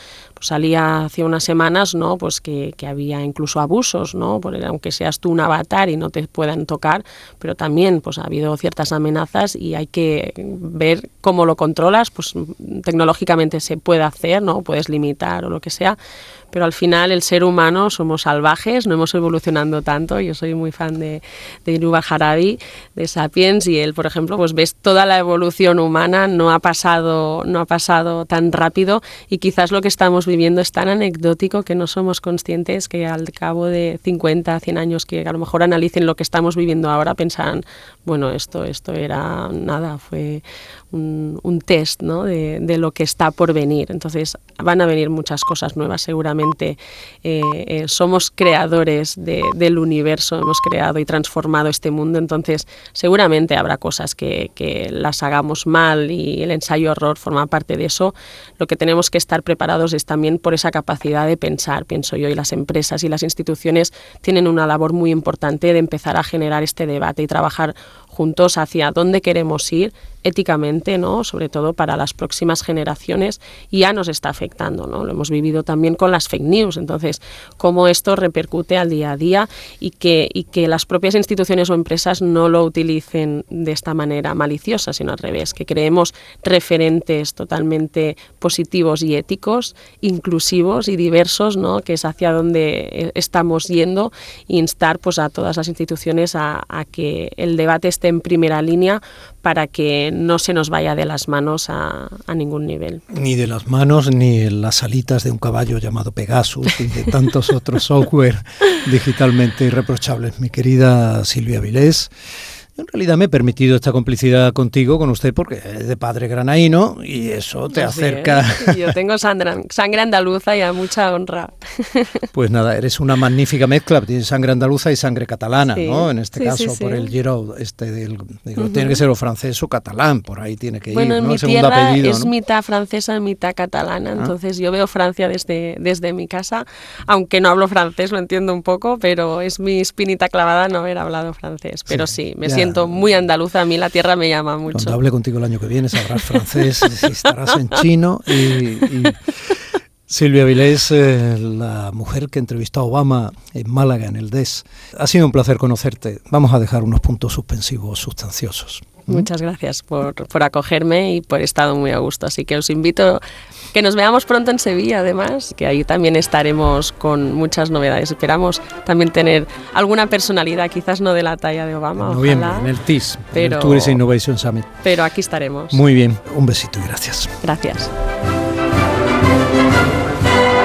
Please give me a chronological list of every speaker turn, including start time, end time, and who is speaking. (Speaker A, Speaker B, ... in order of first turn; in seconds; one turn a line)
Speaker A: 0.4-16.0
Speaker A: 16.5-103.0
Speaker B: 103.1-112.1
Speaker B: 112.8-119.0
Speaker A: 117.7-122.2
Speaker B: 122.3-132.3
Speaker A: 125.7-127.1
Speaker A: 128.6-129.0
Speaker A: 130.9-145.0
Speaker B: 141.9-143.2
Speaker B: 144.7-149.5
Speaker A: 146.6-147.0
Speaker B: 150.1-159.3
Speaker A: 159.1-163.2
Speaker A: 163.7-172.7
Speaker B: 172.0-174.7
Speaker A: 173.3-174.0
Speaker A: 174.8-175.8
Speaker B: 175.7-177.3
Speaker A: 177.4-177.9